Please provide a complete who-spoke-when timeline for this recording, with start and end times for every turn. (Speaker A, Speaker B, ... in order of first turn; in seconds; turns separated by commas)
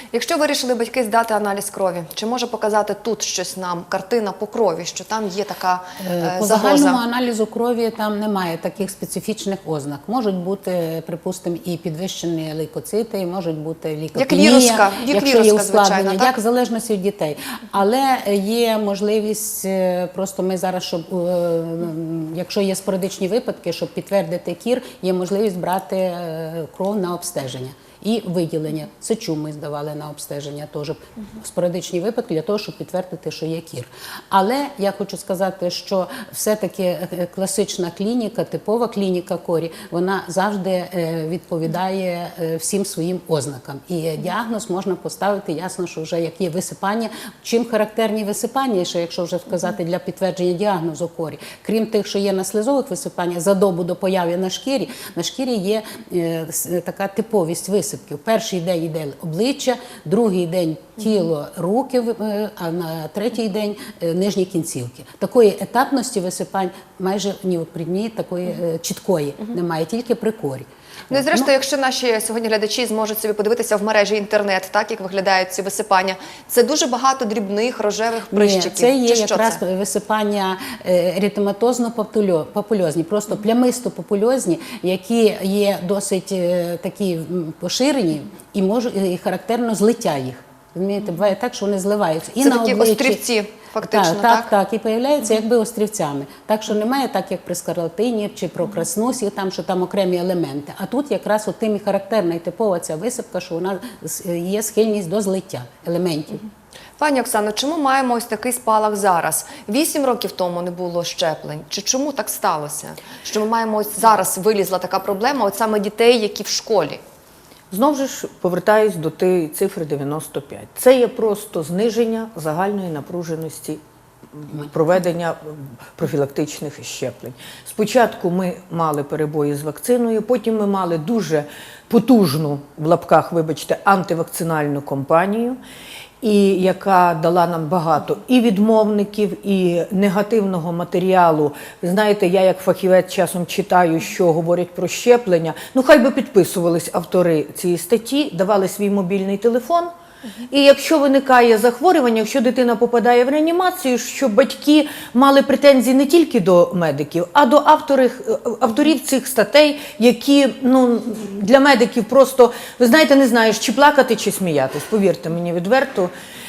Speaker A: 0.1-7.0, Speaker B: 6.0-71.5, Speaker A: 14.1-16.4, Speaker A: 71.1-79.6, Speaker B: 78.3-93.2, Speaker A: 92.4-94.5, Speaker B: 93.8-106.4, Speaker A: 107.0-117.0, Speaker C: 117.7-123.8, Speaker C: 124.4-135.6, Speaker C: 136.2-149.9, Speaker C: 150.5-166.1